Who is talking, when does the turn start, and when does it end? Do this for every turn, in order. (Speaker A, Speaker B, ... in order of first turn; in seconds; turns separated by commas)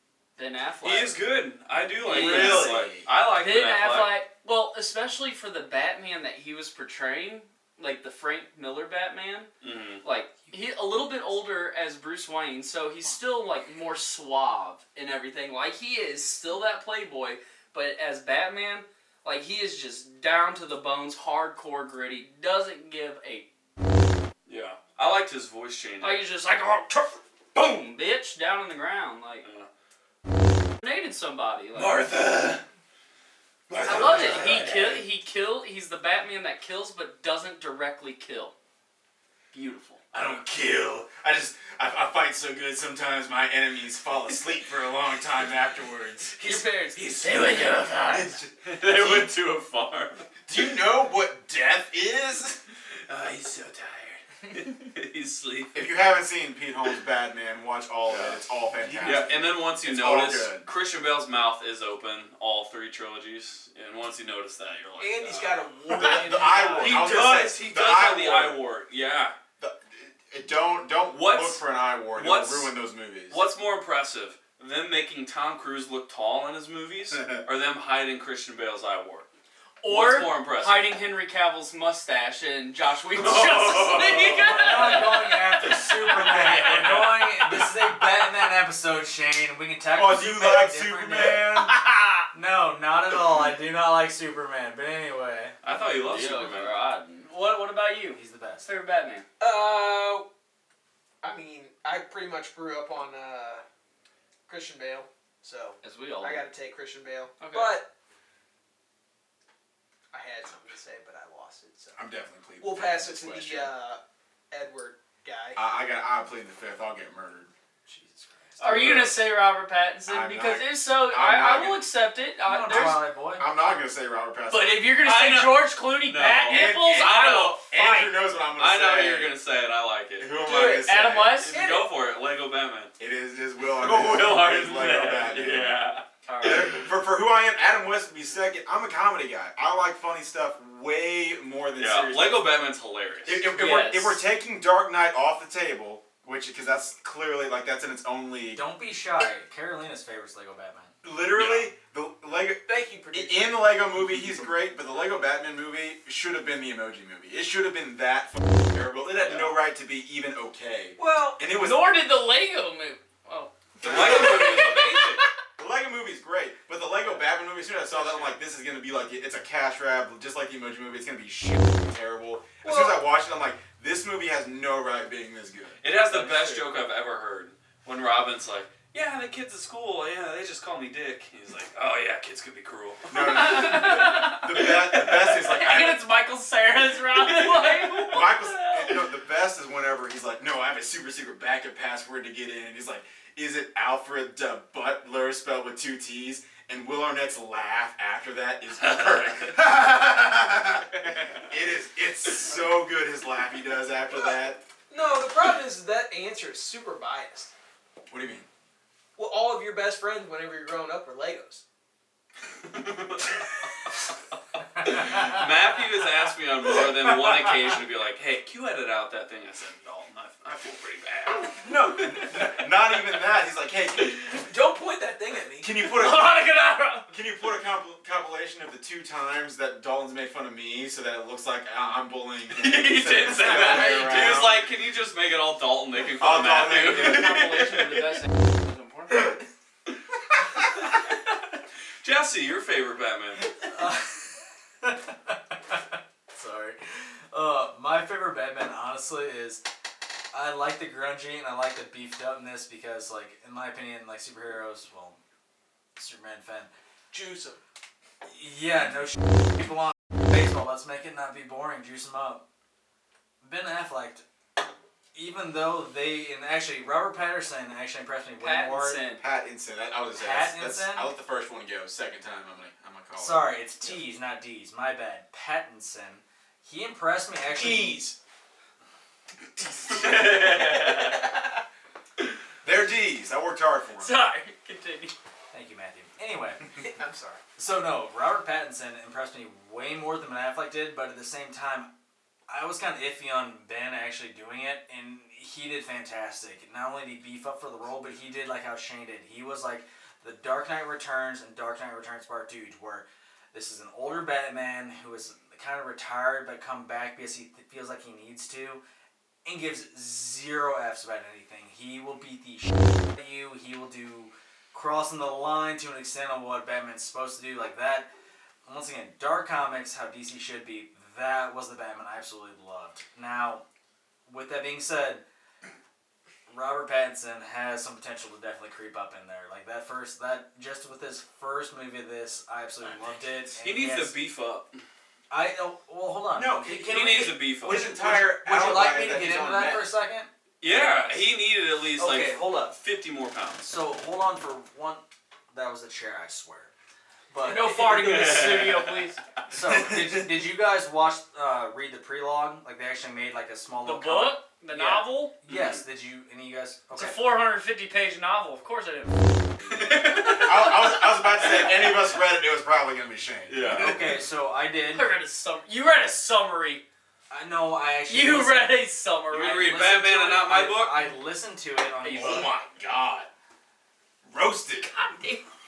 Speaker A: 0.4-1.2, Speaker B: 0.8-4.2, Speaker C: 1.7-3.1, Speaker A: 2.0-9.5, Speaker B: 9.6-10.0, Speaker A: 10.0-23.5, Speaker B: 24.4-26.2, Speaker A: 26.0-29.5, Speaker B: 29.4-29.7, Speaker A: 30.8-32.0, Speaker B: 31.7-32.6, Speaker B: 33.7-35.0, Speaker A: 33.8-38.5, Speaker A: 39.5-40.0, Speaker B: 40.1-41.1, Speaker C: 40.2-40.4, Speaker C: 41.0-46.4, Speaker A: 46.4-48.3, Speaker B: 46.5-50.6, Speaker C: 48.1-49.3, Speaker C: 50.5-52.6, Speaker B: 53.1-55.9, Speaker C: 55.7-60.7, Speaker B: 58.1-58.4, Speaker B: 59.0-69.3, Speaker D: 65.0-67.2, Speaker C: 65.9-68.6, Speaker C: 69.6-73.4, Speaker B: 71.1-71.6, Speaker B: 72.1-72.7, Speaker B: 73.3-79.3, Speaker A: 79.8-86.9, Speaker B: 79.9-80.9, Speaker B: 83.1-85.0, Speaker E: 84.3-91.4, Speaker B: 86.2-87.3, Speaker C: 89.9-91.8, Speaker A: 91.5-92.2, Speaker E: 92.3-95.5, Speaker B: 95.6-96.8, Speaker A: 96.0-99.2, Speaker E: 98.1-98.7, Speaker D: 99.4-100.3, Speaker D: 101.2-103.6, Speaker D: 104.5-107.9, Speaker A: 105.8-106.5, Speaker A: 107.4-107.7, Speaker D: 110.1-112.0, Speaker C: 112.0-113.7, Speaker D: 112.6-114.0, Speaker D: 114.5-115.6, Speaker C: 115.5-117.5, Speaker E: 117.9-118.7, Speaker A: 118.6-123.0, Speaker B: 118.6-119.2, Speaker C: 120.1-121.8, Speaker E: 122.4-123.5, Speaker C: 122.7-124.9, Speaker A: 124.5-128.2, Speaker B: 125.0-127.6, Speaker C: 126.5-129.3, Speaker B: 128.6-130.4, Speaker C: 130.2-131.6, Speaker A: 130.4-131.6, Speaker B: 131.4-132.9, Speaker D: 131.5-131.9, Speaker C: 133.0-135.8, Speaker B: 133.6-136.8, Speaker A: 136.2-136.7, Speaker C: 136.4-142.4, Speaker B: 141.8-143.4, Speaker C: 143.2-148.6, Speaker A: 143.4-144.2, Speaker E: 148.5-150.9, Speaker C: 151.0-161.9, Speaker B: 151.3-151.7, Speaker D: 152.7-154.0, Speaker B: 159.2-159.6, Speaker A: 161.0-165.2, Speaker C: 163.8-164.8, Speaker B: 163.8-165.2, Speaker D: 164.2-164.4, Speaker C: 165.6-175.8, Speaker D: 172.6-172.9, Speaker B: 175.8-183.8, Speaker A: 176.1-176.6, Speaker C: 183.1-186.0, Speaker A: 183.2-189.0, Speaker B: 184.9-185.4, Speaker C: 188.0-204.6, Speaker B: 198.8-199.5, Speaker D: 204.9-207.5, Speaker C: 208.1-208.5, Speaker D: 209.2-211.6, Speaker B: 212.6-213.5, Speaker B: 214.8-222.2, Speaker C: 221.6-224.3, Speaker D: 224.0-225.8, Speaker C: 225.6-226.4, Speaker A: 225.8-227.1, Speaker C: 227.1-234.7, Speaker B: 232.5-238.3, Speaker A: 233.8-234.4, Speaker C: 236.2-237.4, Speaker A: 236.5-239.4, Speaker B: 242.0-243.5, Speaker E: 243.7-249.6, Speaker E: 250.3-255.2, Speaker E: 255.9-256.7, Speaker D: 257.1-257.6, Speaker E: 258.2-262.4, Speaker E: 263.4-264.2, Speaker E: 265.1-269.0, Speaker A: 268.4-269.2, Speaker C: 269.2-273.5, Speaker E: 270.1-271.1, Speaker E: 273.1-278.0, Speaker D: 277.5-278.1, Speaker A: 279.6-281.3, Speaker B: 279.9-281.3, Speaker C: 282.6-284.1, Speaker A: 284.0-285.1, Speaker E: 285.5-286.9, Speaker D: 286.8-287.4, Speaker E: 287.6-291.9, Speaker E: 292.5-308.8, Speaker E: 309.4-318.1, Speaker E: 318.6-323.6, Speaker E: 324.3-325.2, Speaker E: 326.5-334.1, Speaker B: 333.6-334.8, Speaker E: 335.3-341.2, Speaker C: 336.3-339.9, Speaker B: 336.8-337.9, Speaker B: 340.6-343.6, Speaker E: 341.9-342.8, Speaker E: 343.6-346.7, Speaker E: 347.3-348.4, Speaker A: 347.4-349.2, Speaker B: 347.8-349.0, Speaker E: 349.5-357.2, Speaker A: 353.8-355.3, Speaker B: 355.5-355.8, Speaker A: 356.9-361.7, Speaker B: 359.7-360.7, Speaker C: 360.3-364.0, Speaker B: 363.5-364.2, Speaker E: 363.7-365.1, Speaker A: 364.9-366.8, Speaker E: 367.3-372.5, Speaker A: 368.1-369.7, Speaker B: 369.3-371.1, Speaker A: 372.0-372.5, Speaker C: 372.1-373.3, Speaker C: 374.2-374.9, Speaker A: 374.8-375.4